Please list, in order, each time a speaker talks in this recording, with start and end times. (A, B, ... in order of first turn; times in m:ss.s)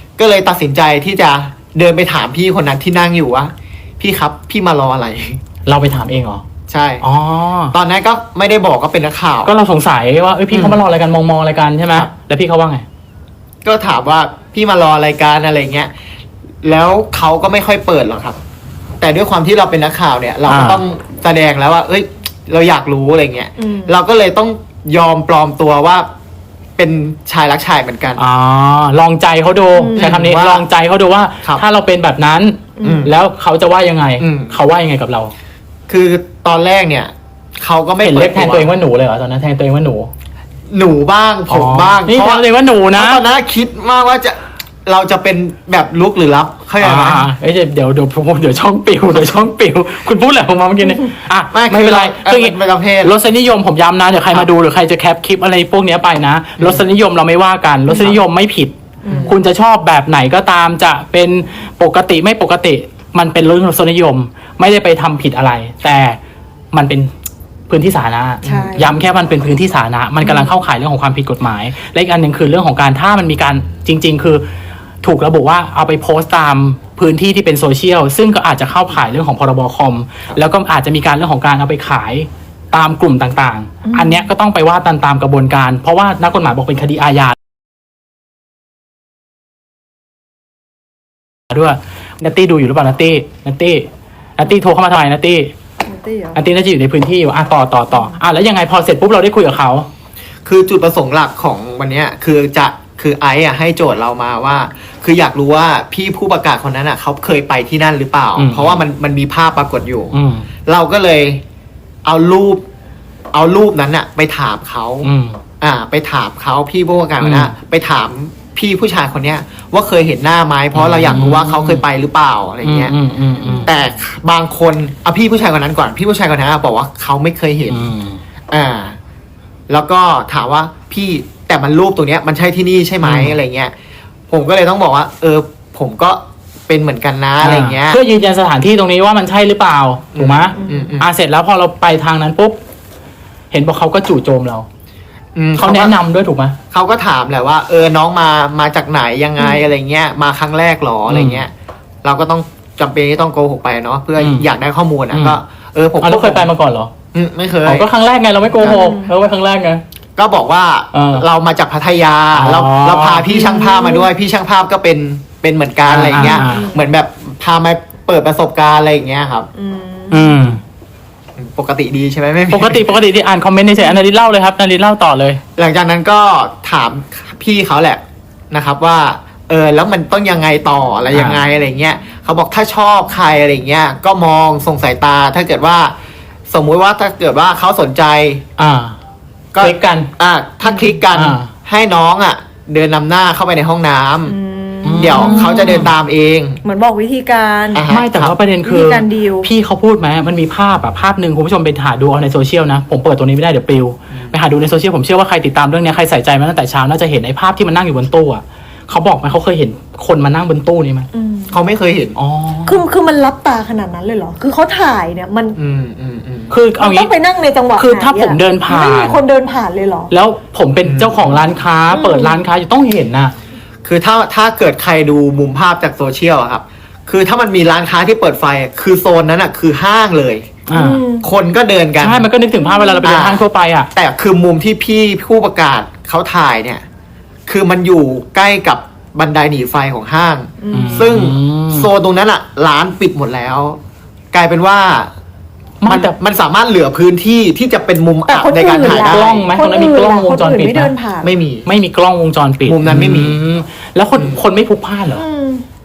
0:00.2-0:05.4 A
0:05.7-0:06.4 B
0:06.7-0:07.0 A
0:07.0-0:07.7 B
0:07.7-0:09.5 A
0:09.5-0:12.8 B
0:10.5-0:10.8 A
0:13.6-0:15.9 A
0:16.6-0:18.4 A
0:19.0-0:26.1 A
0:20.5-0:20.8 B
0:23.6-0:24.0 C
0:26.8-0:28.2 A
0:28.2-0:35.3 B
0:29.7-0:30.1 C
0:30.0-0:30.6 A
0:32.8-0:33.1 C
0:32.8-0:33.2 A
0:34.2-0:34.6 A
0:35.9-0:38.7 A
0:38.0-0:40.1 B
0:40.7-0:47.3 A
0:41.5-0:43.2 B
0:46.8-0:58.7 B
0:50.8-0:51.1 C
0:51.5-0:53.2 A
0:56.6-0:56.8 A
0:57.9-0:58.2 C
0:59.0-0:59.3 C
0:59.1-0:59.4 A
0:59.2-1:06.2 B
1:06.7-1:07.1 B
1:07.7-1:14.4 B
1:08.4-1:08.9 A
1:08.4-1:08.9 C
1:10.2-1:10.5 C
1:15.0-1:27.4 B
1:23.8-1:24.3 C
1:31.5-1:35.5 B
1:35.8-1:36.4 C
1:36.4-1:39.9 B
1:37.9-1:38.2 C
1:40.5-1:50.1 A
1:48.4-1:48.8 B
1:50.1-1:50.5 B
1:50.7-1:51.4 A
1:52.0-1:52.6 A
1:53.3-1:55.1 A
1:55.0-1:55.4 B
1:55.6-2:03.0 A
1:57.2-1:57.5 B
2:00.8-2:01.8 B
2:02.6-2:03.7 B
2:03.4-2:03.7 C
2:03.6-2:07.9 A
2:07.7-2:08.2 B
2:08.5-2:09.0 A
2:09.7-2:13.7 A
2:13.0-2:13.4 B
2:14.3-2:18.0 A
2:17.4-2:22.6 B
2:20.2-2:21.1 A
2:20.6-2:20.9 C
2:23.5-2:24.7 B
2:25.4-2:26.0 A
2:25.6-2:26.6 B
2:26.7-2:31.5 A
2:31.1-2:31.4 B
2:32.0-2:36.5 A
2:34.2-2:34.5 B
2:35.1-2:35.4 B
2:36.0-2:36.9 B
2:37.1-2:37.9 A
2:37.7-2:39.8 B
2:38.6-2:38.9 A
2:38.6-2:39.1 C
2:40.2-2:49.5 A
2:40.9-2:41.2 B
2:42.3-2:43.4 B
2:43.3-2:44.1 C
2:45.9-2:46.7 B
2:46.2-2:46.8 C
2:49.6-2:50.5 C
2:50.1-2:50.6 B
2:51.4-2:52.9 A
2:52.5-2:55.4 B
2:53.8-2:54.1 C
2:55.6-3:06.0 A
3:01.1-3:01.4 B
3:06.5-3:08.4 A
3:08.6-3:09.0 B
3:09.5-3:14.4 A
3:09.6-3:10.1 B
3:10.6-3:10.9 C
3:11.1-3:11.5 B
3:14.3-3:15.9 C
3:14.8-3:15.9 B
3:15.0-3:16.6 A
3:16.6-3:17.9 C
3:17.7-3:18.4 A
3:17.9-3:31.1 B
3:18.6-3:19.5 C
3:24.1-3:24.4 A
3:31.1-3:31.6 C
3:31.5-3:32.2 A
3:32.2-3:32.8 B
3:32.7-3:35.6 C
3:35.6-3:36.5 A
3:36.5-3:37.1 B
3:36.8-3:40.1 C
3:37.8-3:39.2 B
3:40.1-3:43.3 B
3:40.8-3:41.5 A
3:41.9-3:42.4 C
3:43.8-3:50.6 A
3:50.7-3:51.0 B
3:50.7-3:51.3 C
3:51.2-3:52.3 A
3:52.0-3:53.9 B
3:52.6-3:53.0 C
3:53.0-3:56.8 A
3:57.5-4:03.8 A
4:00.6-4:01.1 C
4:00.7-4:01.9 B
4:04.3-4:05.1 A
4:05.8-4:06.2 B
4:05.9-4:09.4 A
4:08.3-4:11.3 C
4:08.8-4:10.9 B
4:11.2-4:11.7 A
4:11.7-4:15.2 B
4:12.6-4:13.4 A
4:14.2-4:14.4 A
4:15.1-4:15.6 C